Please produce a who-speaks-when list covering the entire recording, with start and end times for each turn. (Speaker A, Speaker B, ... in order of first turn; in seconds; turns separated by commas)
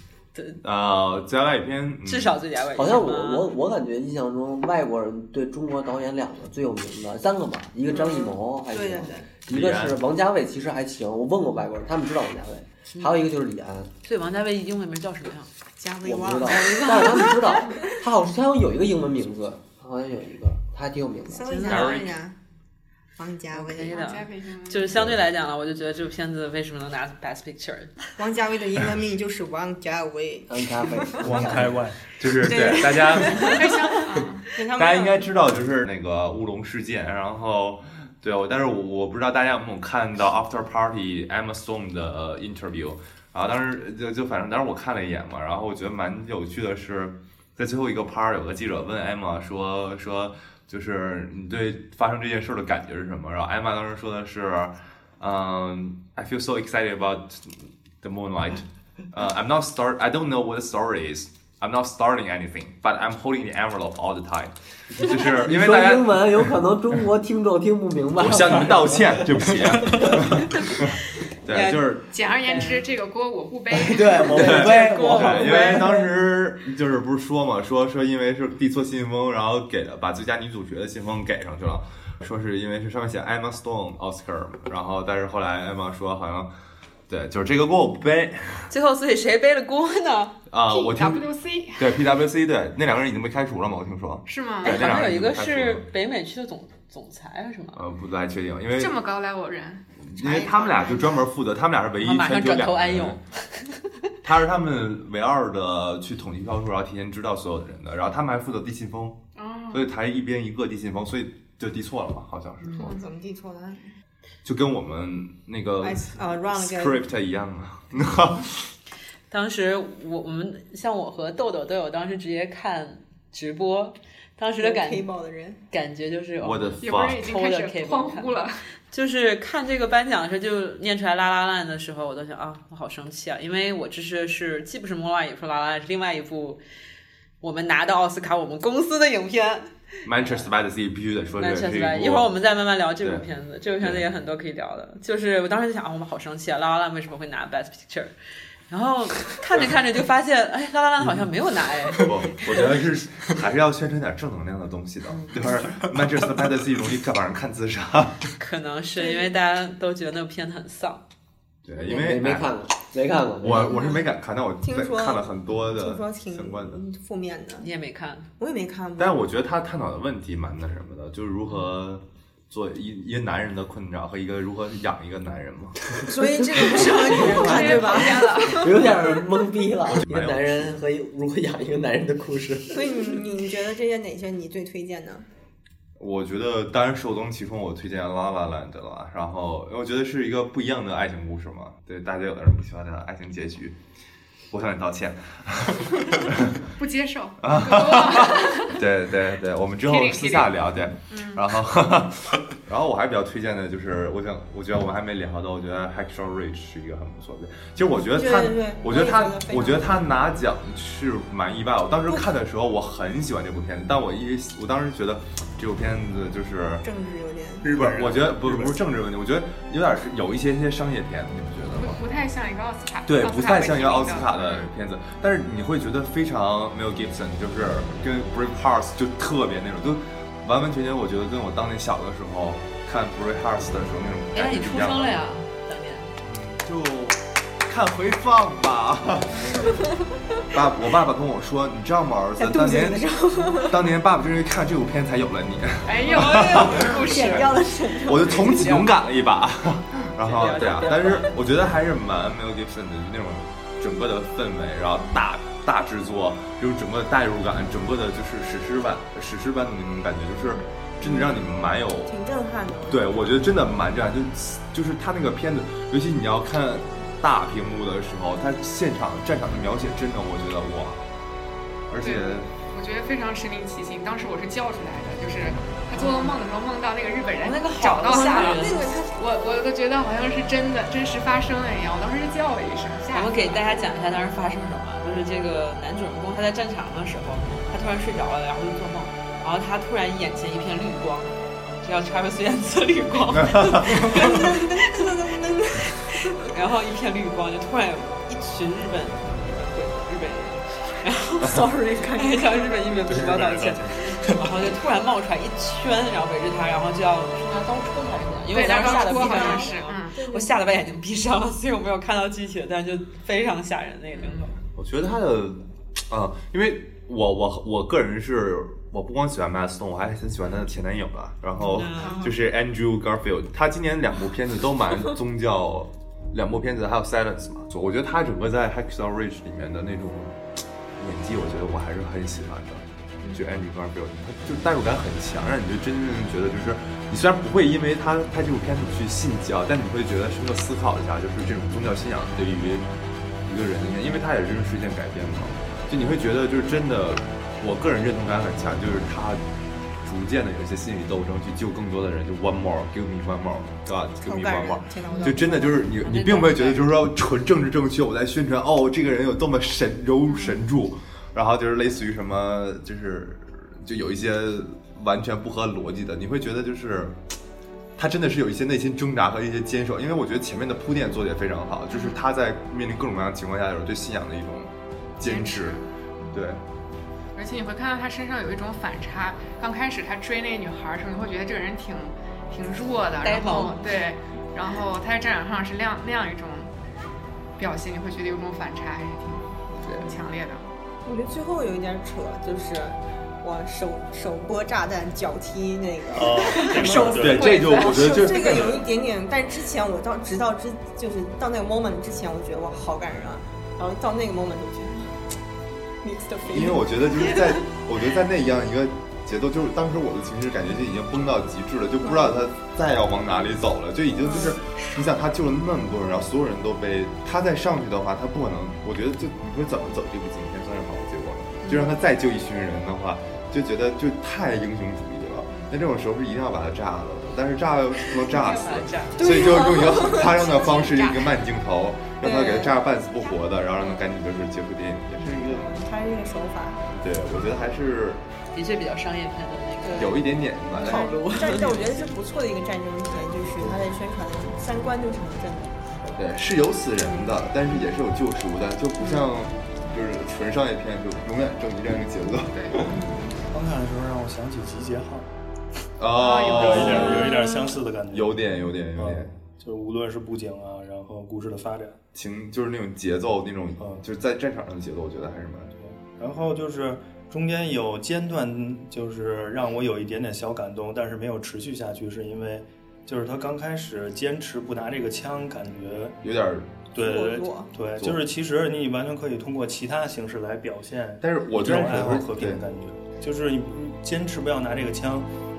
Speaker A: 0.6-2.3, Speaker B: 2.0-3.5, Speaker C: 2.8-13.9, Speaker D: 7.9-9.3, Speaker A: 9.5-10.0, Speaker B: 14.0-15.5, Speaker D: 15.8-17.8, Speaker C: 16.0-21.4, Speaker B: 16.5-17.4, Speaker D: 21.3-22.4, Speaker B: 21.5-22.0, Speaker A: 21.7-22.1, Speaker D: 23.2-24.0, Speaker B: 23.5-28.0, Speaker E: 23.9-25.0, Speaker D: 28.2-31.3, Speaker C: 30.5-31.8, Speaker F: 31.2-32.0, Speaker A: 32.2-33.6, Speaker D: 32.5-34.0, Speaker E: 33.4-34.5, Speaker B: 34.6-34.8, Speaker A: 34.8-66.5, Speaker C: 65.1-69.3, Speaker A: 68.2-72.0, Speaker C: 69.9-70.2, Speaker B: 71.5-71.8, Speaker E: 72.1-74.7, Speaker B: 72.5-72.8, Speaker C: 73.8-76.0, Speaker B: 74.3-75.9, Speaker A: 74.3-86.5, Speaker A: 87.1-88.7, Speaker B: 88.7-90.3, Speaker A: 90.5-95.8, Speaker E: 90.7-91.9, Speaker E: 94.3-94.8, Speaker B: 94.6-97.8, Speaker A: 97.8-99.0, Speaker E: 98.8-99.8, Speaker A: 100.0-103.2, Speaker D: 100.2-101.0, Speaker B: 102.0-103.8, Speaker A: 104.2-109.2, Speaker E: 109.3-109.8, Speaker A: 109.7-113.0, Speaker D: 112.8-113.8, Speaker E: 112.8-113.0, Speaker A: 114.5-118.7, Speaker D: 115.8-117.0, Speaker B: 119.3-125.0, Speaker D: 124.6-125.6, Speaker B: 125.7-128.4, Speaker A: 126.4-127.3, Speaker E: 126.8-128.7, Speaker B: 128.9-136.6, Speaker B: 137.4-140.5, Speaker A: 140.1-142.3, Speaker B: 141.4-148.1, Speaker A: 143.0-143.3, Speaker A: 143.8-144.1, Speaker B: 148.7-152.7, Speaker A: 152.0-158.3, Speaker B: 155.1-155.3, Speaker B: 158.4-161.0, Speaker A: 161.7-162.6, Speaker C: 161.8-163.7, Speaker A: 163.4-166.8, Speaker D: 164.6-167.7, Speaker B: 167.6-168.3, Speaker D: 168.4-169.2, Speaker A: 169.0-175.8, Speaker D: 176.1-178.5, Speaker C: 176.6-182.9, Speaker E: 177.1-178.9, Speaker B: 177.5-178.0, Speaker A: 179.9-180.8, Speaker D: 182.7-185.3, Speaker A: 186.0-193.8, Speaker A: 194.5-196.6, Speaker E: 196.8-198.8, Speaker A: 197.4-216.9, Speaker E: 199.8-200.5, Speaker E: 201.1-201.5, Speaker D: 208.1-210.1, Speaker D: 216.8-217.7, Speaker A: 217.6-222.0, Speaker F: 217.7-218.8, Speaker E: 221.8-224.7, Speaker A: 223.1-235.2, Speaker B: 234.3-236.1, Speaker A: 236.2-239.7, Speaker A: 240.5-247.5, Speaker D: 242.4-243.8, Speaker E: 245.8-247.5, Speaker D: 246.8-248.8, Speaker A: 248.0-262.1, Speaker B: 248.3-248.9, Speaker B: 250.2-251.3, Speaker D: 261.0-261.4, Speaker D: 262.1-263.4, Speaker A: 262.9-271.0, Speaker A: 271.9-272.5, Speaker E: 272.0-283.9, Speaker B: 275.9-276.4, Speaker B: 277.4-279.0, Speaker D: 278.0-279.4, Speaker B: 283.1-295.1, Speaker A: 293.4-294.1, Speaker D: 294.1-296.4, Speaker B: 295.9-301.6, Speaker D: 301.4-303.1, Speaker B: 302.1-314.6, Speaker F: 303.1-304.7, Speaker E: 308.5-310.2, Speaker D: 308.5-310.5, Speaker E: 314.1-314.5, Speaker A: 314.8-330.4, Speaker B: 321.6-322.2, Speaker E: 322.0-322.3, Speaker A: 331.0-342.9, Speaker A: 343.4-349.4, Speaker A: 350.0-367.2, Speaker D: 354.2-355.9, Speaker B: 355.2-356.9, Speaker E: 360.3-360.6, Speaker A: 368.0-375.8, Speaker E: 375.2-375.8, Speaker A: 376.3-376.6, Speaker E: 377.4-386.7, Speaker B: 383.2-383.9, Speaker E: 387.6-390.6, Speaker D: 391.1-405.1, Speaker F: 396.1-397.6, Speaker A: 396.8-398.9, Speaker E: 397.4-398.3, Speaker D: 406.0-407.6, Speaker A: 406.5-435.7, Speaker D: 412.0-412.4, Speaker D: 414.2-414.6, Speaker D: 421.6-422.0, Speaker B: 428.2-429.3, Speaker D: 429.2-430.6, Speaker E: 430.2-431.3, Speaker D: 432.2-432.8, Speaker D: 435.2-436.9, Speaker A: 436.9-438.2, Speaker B: 438.6-440.2, Speaker D: 439.9-440.2, Speaker A: 440.0-441.1, Speaker B: 440.8-441.9, Speaker D: 440.8-445.8, Speaker A: 446.0-453.0, Speaker E: 452.5-452.8, Speaker D: 452.8-453.2, Speaker F: 453.5-455.3, Speaker A: 456.0-457.2, Speaker E: 456.1-457.8, Speaker F: 456.5-458.4, Speaker D: 457.2-457.5, Speaker A: 458.1-459.3, Speaker F: 459.0-462.0, Speaker A: 462.1-465.7, Speaker F: 465.8-476.2, Speaker A: 476.2-476.8, Speaker F: 476.9-485.3, Speaker D: 477.0-477.7, Speaker A: 478.0-478.2, Speaker A: 481.2-482.7